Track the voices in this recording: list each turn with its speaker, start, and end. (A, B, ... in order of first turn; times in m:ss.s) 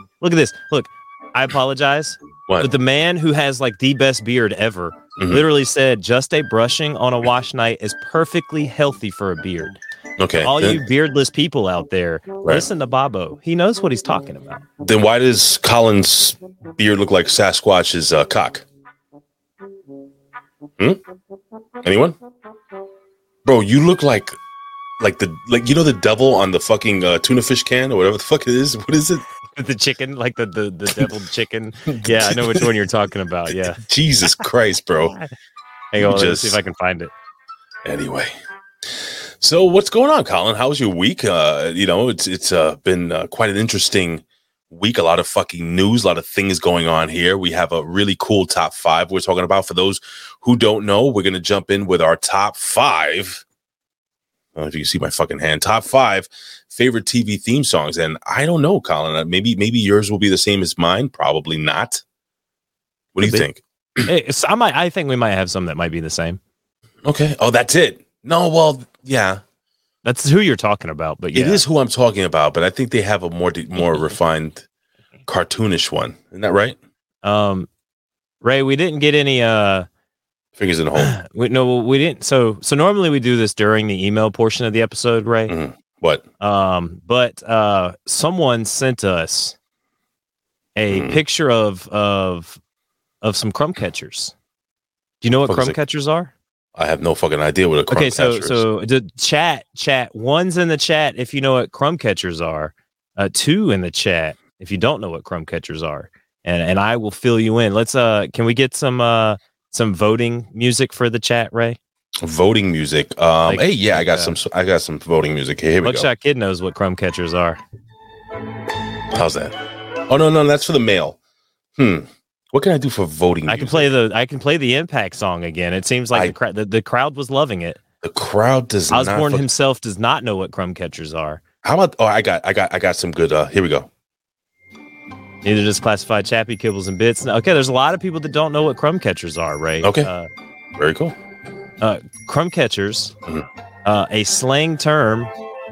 0:00.2-0:09.8 A
0:02.5-0:02.7 B
0:05.2-0:05.4 B
0:10.2-0:10.8 B
0:10.4-0:14.6 A
0:14.8-0:18.6 B
0:21.8-0:22.2 B
0:23.4-0:24.4 B
0:25.0-0:29.2 B
0:29.6-0:33.8 A
0:31.9-0:32.7 B
0:33.8-0:35.2 B
0:35.9-0:37.1 A
0:36.0-0:36.6 B
0:37.8-0:38.3 B
0:38.9-0:53.4 B
0:54.6-1:02.0 B
1:03.2-1:04.1 B
1:03.2-1:03.5 A
1:04.0-1:06.4 A
1:07.0-1:09.4 B
1:10.0-1:11.6 A
1:11.3-1:14.6 B
1:15.3-1:16.8 B
1:17.2-1:17.7 A
1:18.4-1:19.9 A
1:20.6-1:21.2 B
1:21.0-1:25.6 A
1:25.5-1:26.2 B
1:26.4-1:29.6 A
1:30.8-1:32.6 A
1:30.9-1:31.2 B
1:33.2-1:34.3 A
1:35.2-1:36.3 A
1:35.5-1:35.8 B
1:36.8-1:38.6 B
1:37.9-1:51.8 A
1:52.2-1:56.1 B
1:53.5-1:54.4 A
1:55.8-1:57.6 A
1:59.1-2:01.2 B
2:01.8-2:03.9 B
2:03.5-2:07.8 A
2:08.0-2:09.5 B
2:08.9-2:11.4 A
2:11.6-2:13.9 B
2:15.4-2:20.3 A
2:19.8-2:20.1 B
2:20.8-2:21.2 B
2:21.8-2:23.2 A
2:23.8-2:25.3 A